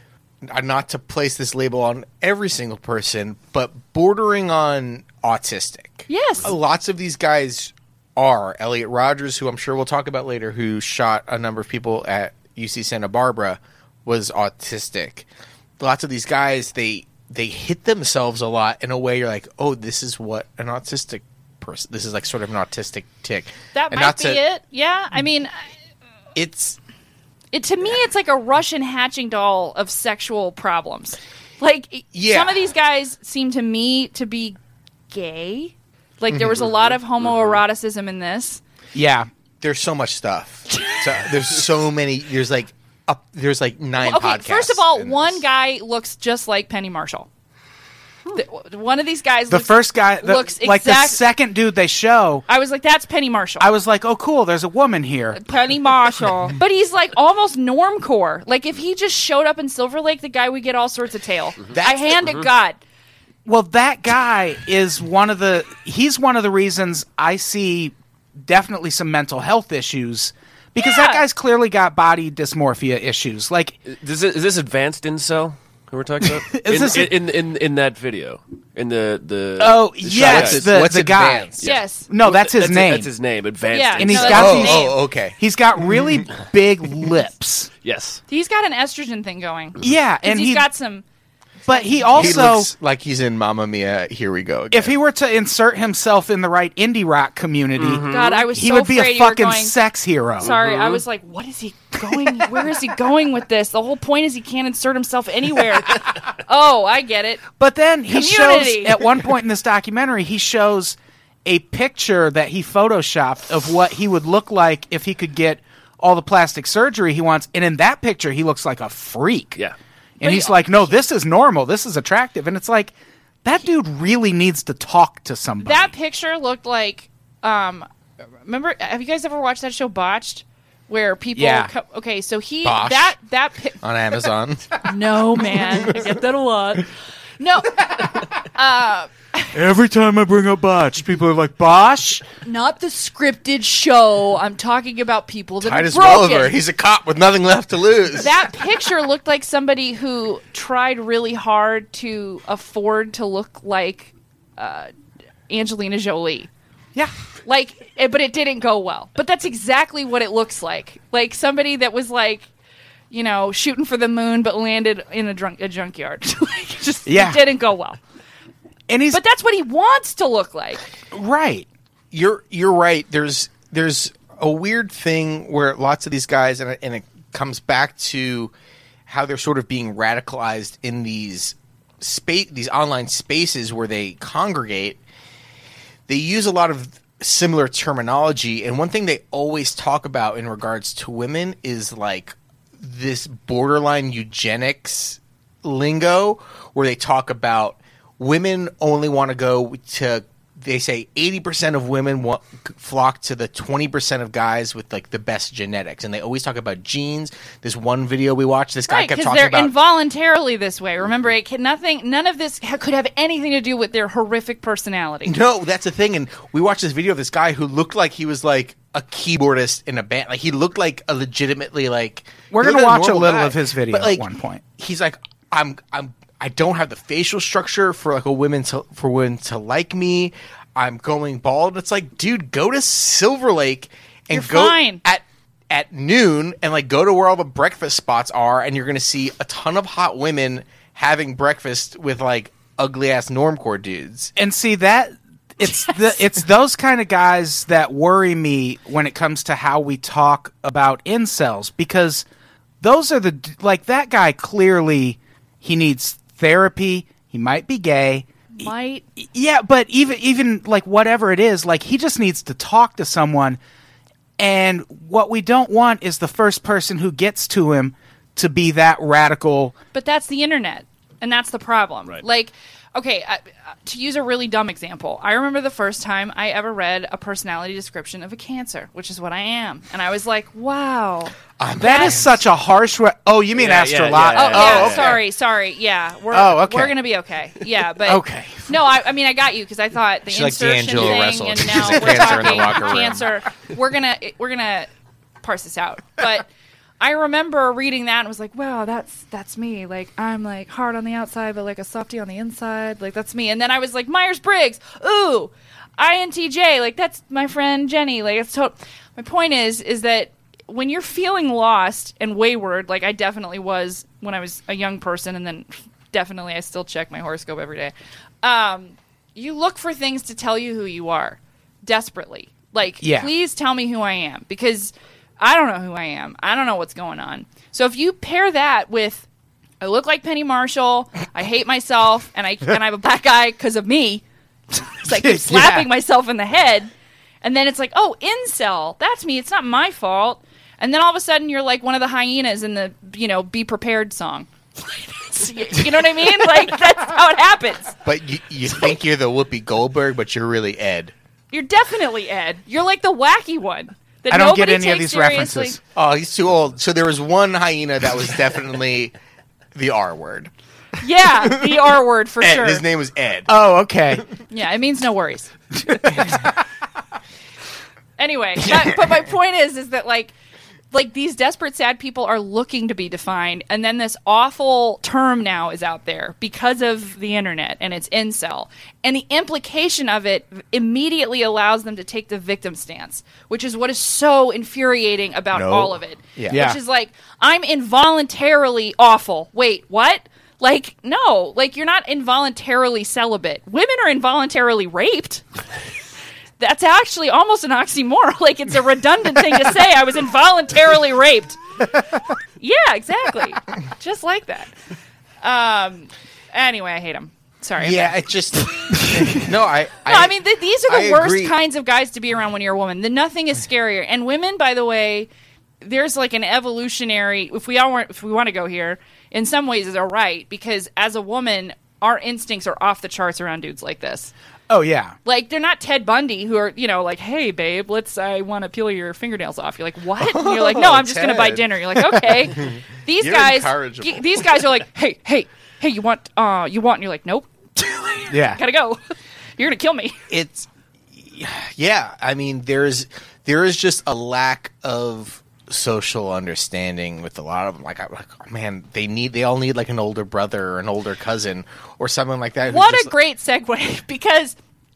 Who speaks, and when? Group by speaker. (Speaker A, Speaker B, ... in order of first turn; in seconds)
Speaker A: 0.5-15.2, 15.8-24.4, 26.3-26.8, 32.1-32.6, 36.3-36.6, 39.6-45.4, 61.7-62.1, 80.1-81.6, 84.2-85.4, 92.1-94.9, 132.6-133.1, 133.8-134.8, 145.6-148.3, 172.1-178.5, 179.1-185.0, 186.1-209.7, 215.2-224.2, 224.8-244.3, 281.6-282.4, 284.5-285.2, 290.3-293.2, 348.0-351.1, 355.9-359.1, 359.7-360.5, 361.4-363.5, 385.5-386.6, 407.8-411.5, 430.2-431.7, 432.4-434.6, 440.3-440.6, 441.3-453.1
Speaker B: 6.1-6.5, 23.7-25.5, 27.5-34.6, 35.1-38.6, 44.0-47.3, 48.3-51.2, 52.5-53.7, 55.3-62.8, 70.8-71.2, 81.6-82.1, 83.7-85.0, 88.3-91.0, 91.7-92.4, 98.1-99.8, 100.4-107.4, 108.1-109.1, 120.2-120.7, 125.6-127.9, 128.4-133.8, 134.8-139.5, 142.4-146.6, 148.2-154.9, 155.5-156.5, 157.4-162.5, 163.1-168.0, 169.1-170.8, 208.9-215.3, 234.3-235.0, 258.6-259.0, 269.9-282.2, 284.3-294.9, 295.4-296.5, 297.0-329.2, 329.8-334.2, 334.7-336.9, 337.4-348.0, 351.5-355.8, 361.0-362.8, 364.5-365.5, 368.2-370.3, 370.9-395.4, 396.6-401.6, 402.6-404.7, 405.4-408.1, 410.1-415.3, 415.8-424.3, 425.2-439.0, 439.6-440.2, 452.7-454.6
Speaker C: 37.3-37.6, 73.9-80.7, 81.6-84.6, 87.8-88.2, 97.8-98.5, 100.4-101.0, 283.5-285.2
Speaker D: 38.9-39.3, 49.5-52.4, 53.6-55.4, 63.4-73.8, 76.4-77.1, 79.6-81.5, 82.1-83.1, 84.0-87.7, 89.8-90.7, 91.7-92.7, 94.7-100.5, 102.1-102.3, 107.6-119.6, 120.2-122.9, 123.4-125.9, 131.3-131.7, 139.5-142.2, 167.1-167.4, 168.9-169.2, 171.1-171.7, 222.5-224.6, 244.3-252.2, 252.8-263.6, 264.4-269.7, 281.8-285.1, 286.3-286.9, 288.0-288.8, 292.0-292.7, 323.0-323.3, 335.1-335.9, 354.3-355.8, 363.5-364.2, 365.9-366.5, 386.5-386.8, 424.7-425.1, 438.3-438.6